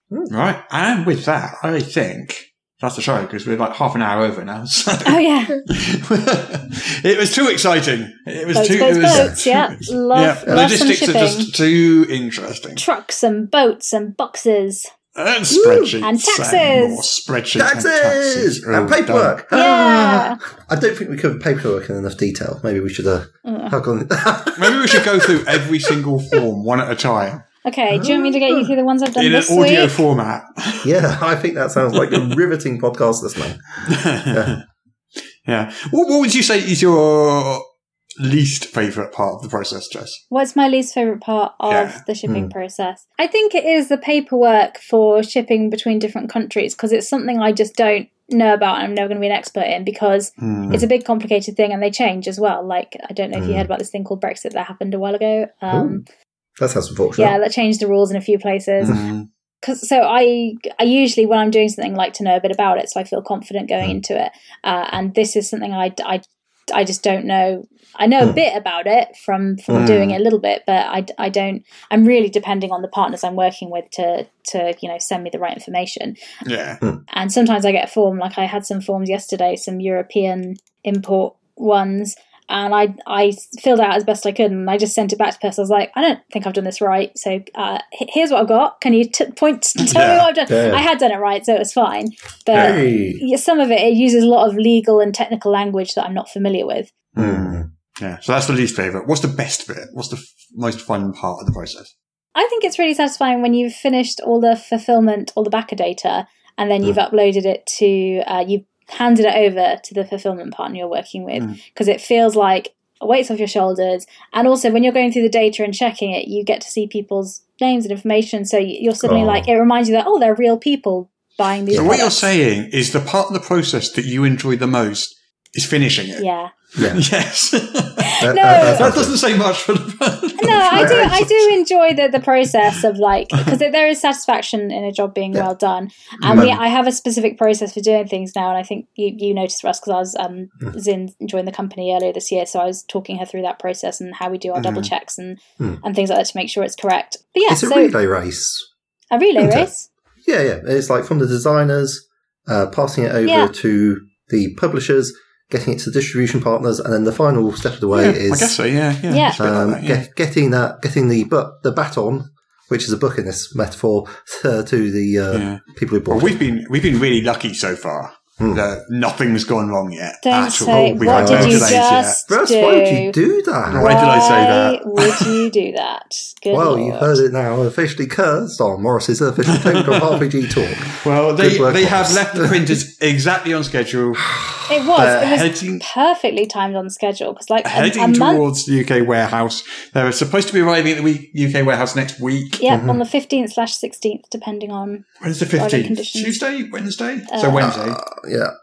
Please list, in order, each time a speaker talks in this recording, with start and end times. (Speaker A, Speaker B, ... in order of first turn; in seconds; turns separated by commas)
Speaker A: 0.3-12.8, Speaker B: 5.1-5.6, Speaker B: 8.6-11.5, Speaker C: 9.1-9.4, Speaker B: 12.8-14.9, Speaker A: 15.2-19.4, Speaker C: 15.5-16.0, Speaker B: 16.0-17.1, Speaker C: 17.6-25.9, Speaker B: 19.5-20.4, Speaker B: 23.4-23.7, Speaker A: 24.6-27.4, Speaker B: 27.6-30.1, Speaker C: 27.9-28.7, Speaker A: 29.2-30.9, Speaker C: 30.8-33.6, Speaker A: 33.9-34.6, Speaker A: 35.5-37.6, Speaker A: 38.2-40.2, Speaker B: 40.3-56.0, Speaker A: 41.7-42.0, Speaker C: 42.3-42.5, Speaker A: 50.4-50.8, Speaker C: 53.4-53.7, Speaker C: 55.7-56.0, Speaker C: 56.6-57.4, Speaker B: 57.2-59.0, Speaker A: 58.8-59.3, Speaker B: 59.6-76.2, Speaker C: 69.7-70.2, Speaker A: 69.8-70.1, Speaker A: 76.5-76.8, Speaker B: 77.1-96.9, Speaker A: 89.8-90.3, Speaker C: 90.5-90.8, Speaker C: 92.5-93.2, Speaker A: 92.5-92.8, Speaker A: 97.2-101.9, Speaker C: 97.2-97.7, Speaker B: 102.3-122.3, Speaker C: 119.0-119.5, Speaker C: 121.7-122.0, Speaker A: 121.7-126.2, Speaker B: 126.2-126.5, Speaker C: 126.8-127.0, Speaker A: 126.8-131.1, Speaker B: 128.0-128.9, Speaker C: 128.2-129.2, Speaker B: 130.4-147.9, Speaker C: 130.5-131.6, Speaker C: 136.2-136.6, Speaker A: 144.6-144.9, Speaker C: 147.5-148.7, Speaker B: 149.1-149.9, Speaker C: 149.4-149.7, Speaker C: 150.2-158.6, Speaker B: 153.2-153.5, Speaker A: 157.9-160.1, Speaker B: 159.1-159.4, Speaker C: 159.4-166.3, Speaker A: 165.3-172.2, Speaker C: 168.4-168.6, Speaker B: 170.2-173.2, Speaker C: 170.8-173.9, Speaker A: 173.7-175.5, Speaker B: 173.8-177.2, Speaker C: 176.5-182.8, Speaker A: 179.5-180.3, Speaker A: 180.9-184.3, Speaker C: 184.3-185.1, Speaker B: 184.7-188.4, Speaker A: 185.0-185.8, Speaker A: 187.7-192.6, Speaker B: 192.6-196.4, Speaker C: 192.7-193.0, Speaker A: 195.2-198.0, Speaker B: 197.3-197.7, Speaker C: 197.6-198.5